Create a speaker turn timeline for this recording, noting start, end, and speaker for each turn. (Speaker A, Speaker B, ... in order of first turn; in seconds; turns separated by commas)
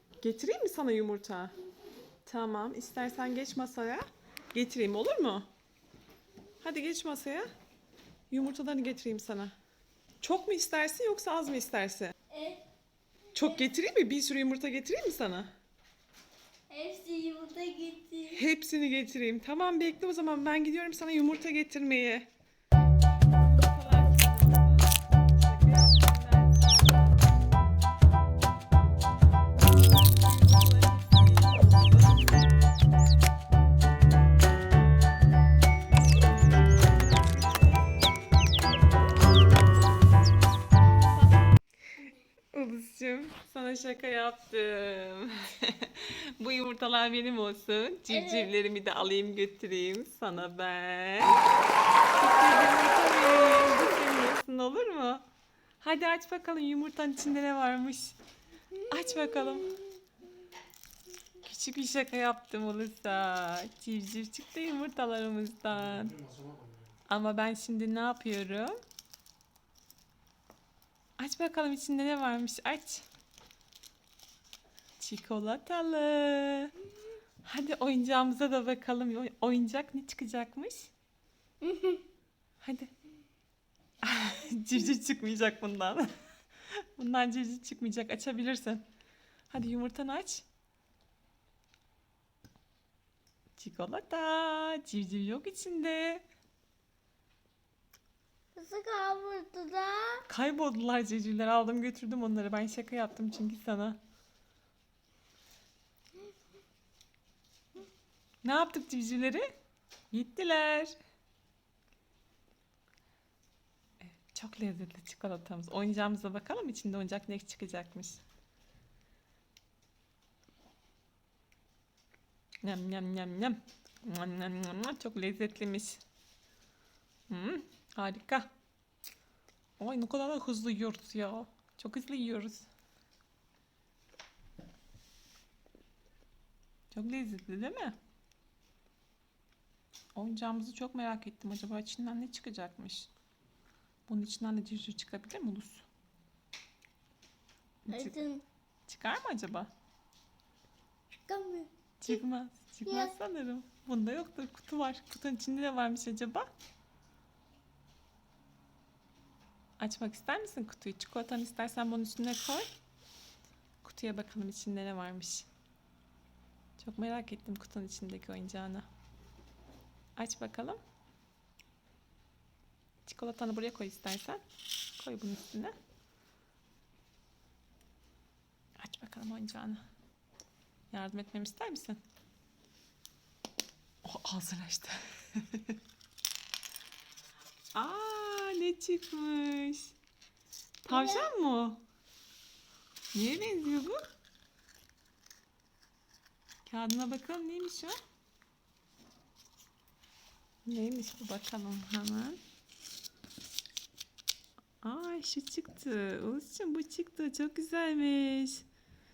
Speaker A: 0.2-1.5, Speaker A: 2.2-5.5, Speaker A: 6.6-7.5, Speaker A: 8.3-9.5, Speaker A: 10.2-12.1, Speaker B: 12.3-12.6, Speaker A: 13.3-15.5, Speaker B: 16.7-18.4, Speaker A: 18.3-22.3, Speaker A: 23.3-27.2, Speaker A: 30.1-32.4, Speaker A: 36.5-37.9, Speaker A: 42.5-51.4, Speaker B: 48.1-48.5, Speaker A: 52.2-55.2, Speaker A: 55.8-58.2, Speaker A: 58.8-59.8, Speaker A: 61.4-66.3, Speaker A: 67.1-68.8, Speaker A: 71.2-73.0, Speaker A: 75.0-76.7, Speaker A: 77.4-80.9, Speaker B: 81.7-82.0, Speaker A: 82.6-82.9, Speaker A: 84.0-86.1, Speaker A: 86.7-88.8, Speaker A: 89.5-90.4, Speaker A: 93.5-96.2, Speaker B: 98.5-100.2, Speaker A: 100.3-104.0, Speaker A: 108.4-109.5, Speaker A: 110.1-110.9, Speaker A: 114.0-118.2, Speaker A: 122.6-126.0, Speaker A: 127.3-128.5, Speaker A: 129.8-132.7, Speaker A: 136.9-137.9, Speaker A: 140.1-143.1, Speaker A: 144.1-145.9, Speaker A: 147.8-148.2, Speaker B: 147.9-148.4, Speaker A: 148.9-149.7, Speaker B: 151.2-151.7, Speaker A: 152.0-156.5, Speaker B: 152.8-153.1, Speaker A: 159.8-162.7, Speaker A: 163.8-165.5, Speaker A: 166.8-168.9, Speaker A: 170.2-170.8, Speaker A: 173.0-174.4, Speaker A: 175.0-175.8, Speaker A: 178.8-179.8, Speaker A: 180.9-182.0, Speaker A: 184.0-185.7, Speaker A: 187.7-189.9, Speaker A: 190.8-191.8, Speaker B: 190.9-191.3, Speaker A: 193.1-194.0, Speaker A: 196.6-197.9, Speaker A: 200.6-202.4, Speaker A: 204.8-208.6